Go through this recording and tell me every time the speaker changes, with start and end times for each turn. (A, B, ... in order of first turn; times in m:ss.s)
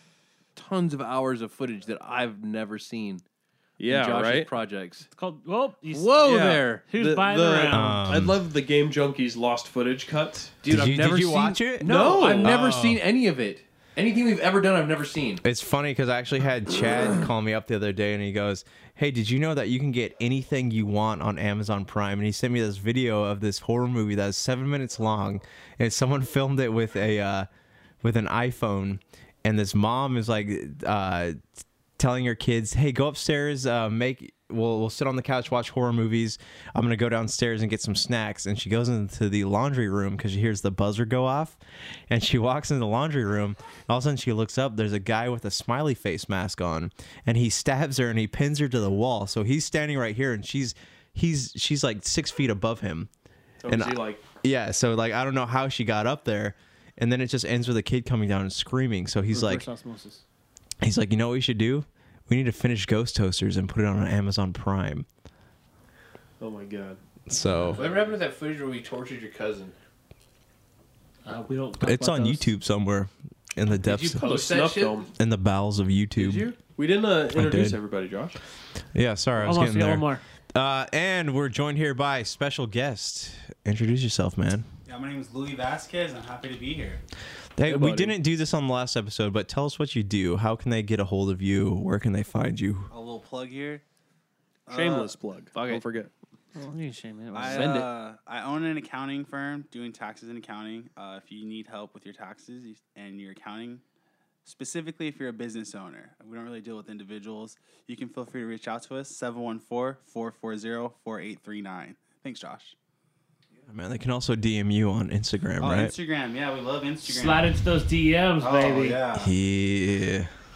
0:00.6-0:03.2 A
0:03.8-0:04.5 B
0:03.8-0:05.1 A
0:05.1-0:08.1 C
0:05.9-0:06.8 A
0:06.2-0:10.6 B
0:07.7-0:08.4 D
0:10.6-0:15.4 A
0:10.7-0:13.0 D
0:11.8-0:12.6 B
0:15.4-0:27.5 D
0:28.0-0:31.4 D
0:32.0-0:41.6 D
0:42.1-0:53.1 D
0:53.6-0:54.2 B
0:53.7-0:59.6 D
0:59.3-1:00.2 C
1:00.8-1:05.1 D
1:06.4-1:07.0 B
1:07.3-1:07.8 D
1:07.8-1:09.8 A
1:11.3-1:12.5 C
1:11.8-1:14.2 D
1:13.8-1:15.1 A
1:14.2-1:15.1 B
1:15.2-1:16.6 D
1:16.2-1:16.5 A
1:16.8-1:18.4 B
1:17.3-1:17.8 D
1:18.9-1:24.7 D
1:19.4-1:20.2 C
1:24.9-1:27.0 E
1:27.6-1:32.9 D
1:27.7-1:28.2 B
1:32.9-1:33.8 E
1:34.7-1:35.1 E
1:34.7-1:36.1 B
1:35.5-1:35.8 A
1:36.6-1:37.8 C
1:37.3-1:43.8 E
1:37.4-1:37.9 A
1:44.4-1:52.8 E
1:53.7-1:55.9 D
1:55.6-1:57.5 E
1:57.0-1:59.0 C
1:58.4-1:59.3 E
1:59.1-2:00.3 D